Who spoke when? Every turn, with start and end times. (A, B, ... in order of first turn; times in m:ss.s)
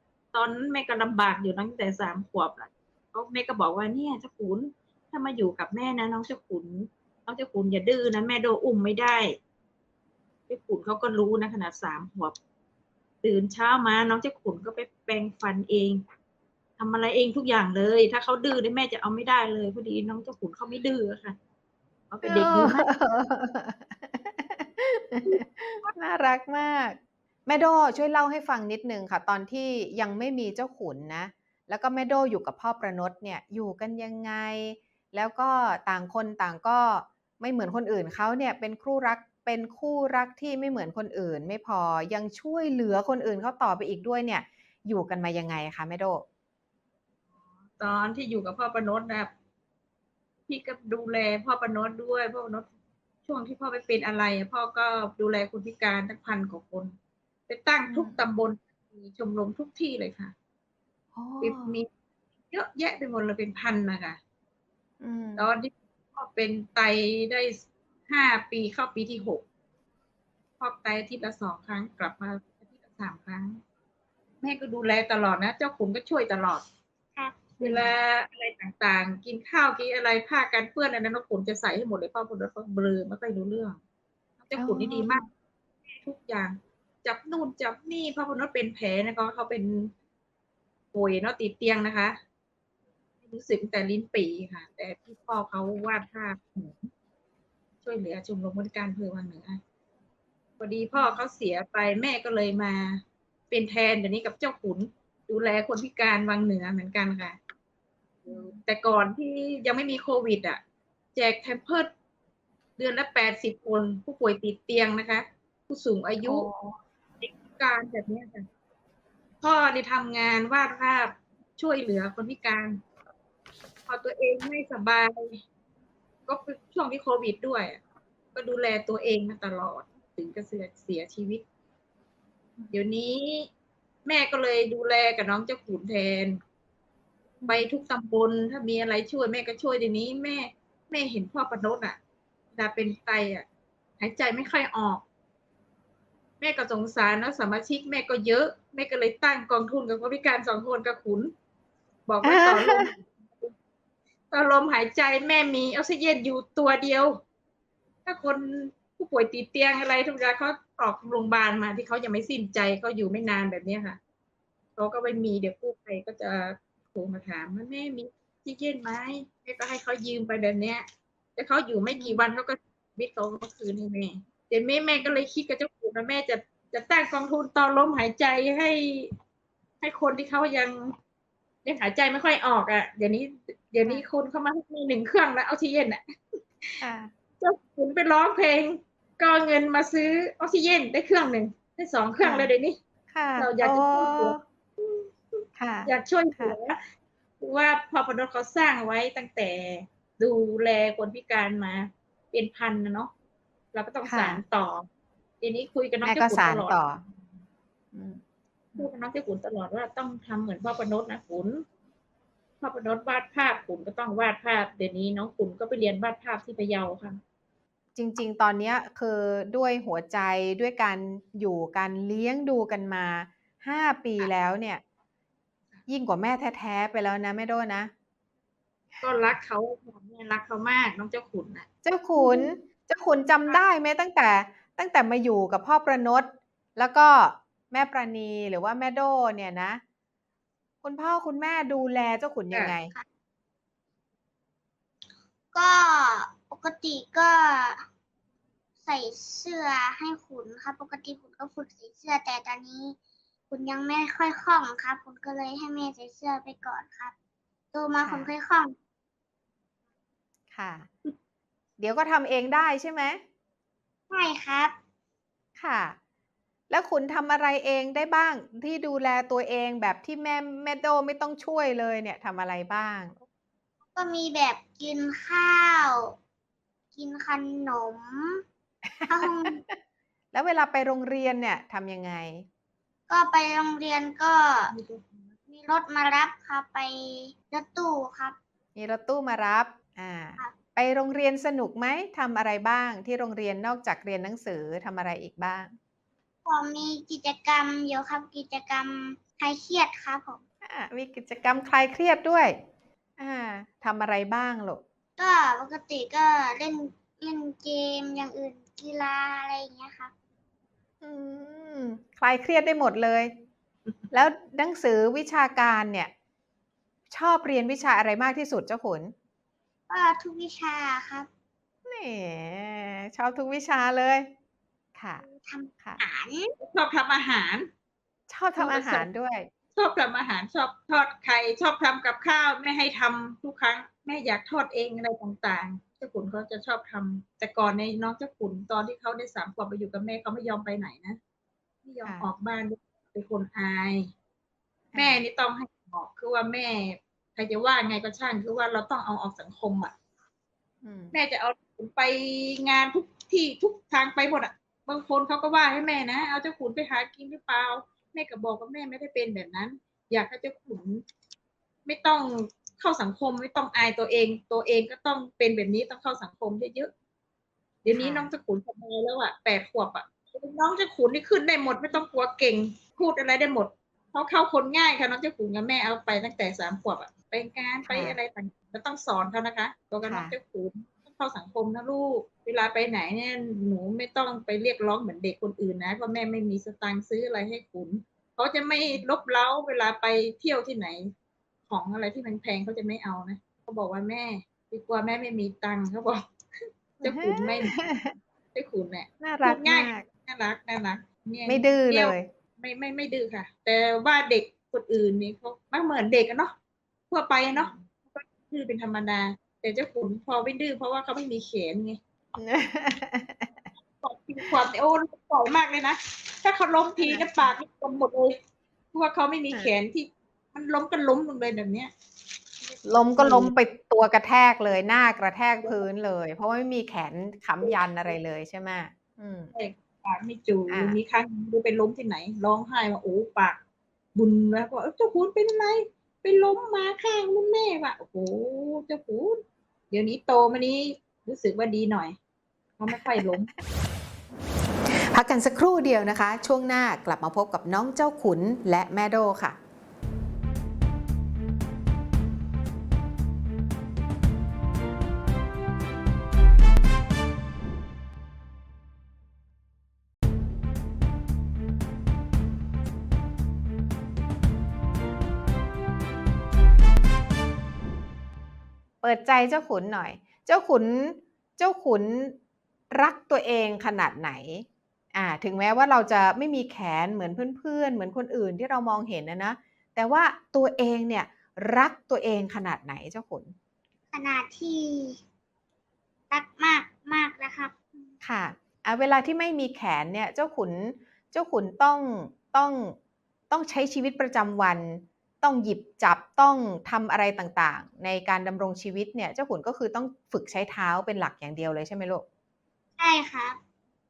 0:00.3-0:09.3 A
0:10.5-0:12.4 A
0:13.2-0:16.0 A
0:16.8-0:21.4 A
0:22.1-0:22.9 A
0:22.2-0:46.2 B
0:25.2-0:25.9 A
0:47.8-0:49.3 A
0:50.5-0:52.7 A
0:53.2-0:56.9 A
0:57.5-1:00.3 A
0:57.9-0:58.2 B
1:01.1-1:01.7 B
1:01.4-1:01.9 A
1:02.5-1:04.2 A
1:05.0-1:05.5 B
1:05.4-1:09.4 A
1:10.6-1:13.6 A
1:14.4-1:16.6 A
1:17.2-1:17.6 C
1:17.6-1:23.8 A
1:17.6-1:17.9 B
1:24.4-1:25.2 A
1:24.5-1:25.3 B
1:26.0-1:29.9 A
1:30.9-1:32.2 A
1:33.2-1:36.9 A
1:37.8-1:39.6 A
1:40.6-1:47.4 A
1:48.2-1:50.6 A
1:48.3-1:48.6 B
1:51.1-1:51.9 A
1:52.8-1:56.5 A
1:56.2-1:56.8 B
1:57.2-1:58.4 A
1:59.4-2:02.8 A
2:03.9-2:05.4 A
2:06.3-2:07.8 A
2:08.3-2:11.4 A
2:12.7-2:13.5 A
2:14.0-2:16.4 A
2:17.4-2:17.7 B
2:17.4-2:22.0 A
2:22.5-2:23.4 A
2:24.0-2:25.0 A
2:26.4-2:31.3 A
2:32.1-2:33.5 A
2:32.2-2:32.9 B
2:34.3-2:37.2 A
2:38.0-2:44.0 A
2:44.8-2:59.1 A
2:59.8-3:00.9 A
3:01.6-3:06.0 A
3:06.8-3:07.1 B
3:07.4-3:12.8 A
3:12.2-3:12.5 B
3:13.1-3:14.4 B
3:13.4-3:16.8 A
3:15.6-3:16.6 B
3:17.4-3:23.1 A
3:23.7-3:24.8 A
3:24.0-3:24.4 B
3:25.4-3:26.8 A
3:26.0-3:27.0 B
3:27.9-3:28.2 B
3:28.8-3:31.6 A
3:32.6-3:37.2 A
3:38.0-3:44.8 B
3:45.9-3:47.9 B
3:49.0-3:51.7 A
3:51.8-3:59.8 B
4:00.8-4:02.9 B
4:05.5-4:07.8 C
4:08.8-4:13.0 C
4:13.5-4:17.1 C
4:17.7-4:18.7 C
4:18.0-4:18.3 B
4:20.5-4:20.9 B
4:21.8-4:23.2 B
4:24.1-4:24.7 C
4:25.6-4:26.0 B
4:26.7-4:33.2 B
4:33.9-4:36.2 C
4:36.9-4:38.4 C
4:39.0-4:39.7 B
4:39.1-4:39.6 C
4:40.3-4:42.4 B
4:43.1-4:44.7 C
4:44.7-4:45.3 A
4:45.5-4:48.4 C
4:48.8-4:55.7 B
4:56.4-5:00.4 C
5:00.6-5:02.6 B
5:03.2-5:04.8 B
5:05.2-5:10.1 C
5:11.0-5:13.3 B
5:14.1-5:16.1 B
5:17.1-5:19.1 B
5:19.9-5:21.3 C
5:21.8-5:24.3 B
5:25.0-5:25.2 B
5:25.2-5:26.5 C
5:26.6-5:27.7 A
5:28.3-5:29.5 B
5:28.6-5:29.0 A
5:29.7-5:41.2 A
5:41.8-5:44.1 A
5:44.9-5:45.2 B
5:44.9-5:49.9 A
5:50.8-5:51.1 B
5:51.1-6:01.0 A
6:01.8-6:06.9 A
6:07.8-6:31.1 A
6:07.9-6:08.3 B
6:17.9-6:18.2 B
6:20.0-6:20.4 B
6:31.7-6:36.2 A
6:37.0-6:37.8 A
6:37.0-6:38.1 B
6:38.5-6:46.5 A
6:39.2-6:40.0 B
6:41.5-6:42.3 B
6:47.1-6:52.0 A
6:47.5-6:47.8 B
6:52.4-6:53.6 B
6:54.0-6:58.4 A
6:57.0-6:57.2 B
6:58.9-7:01.9 A
7:02.7-7:03.5 A
7:02.8-7:09.5 B
7:09.5-7:13.6 A
7:10.7-7:11.0 B
7:14.1-7:22.2 A
7:22.8-7:23.5 A
7:22.9-7:23.4 B
7:25.1-7:29.6 B
7:49.0-7:52.4 B
7:52.9-8:03.5 B
8:04.1-8:05.2 C
8:06.3-8:08.1 C
8:08.2-8:13.0 B
8:13.5-8:22.2 B
8:23.0-8:23.6 C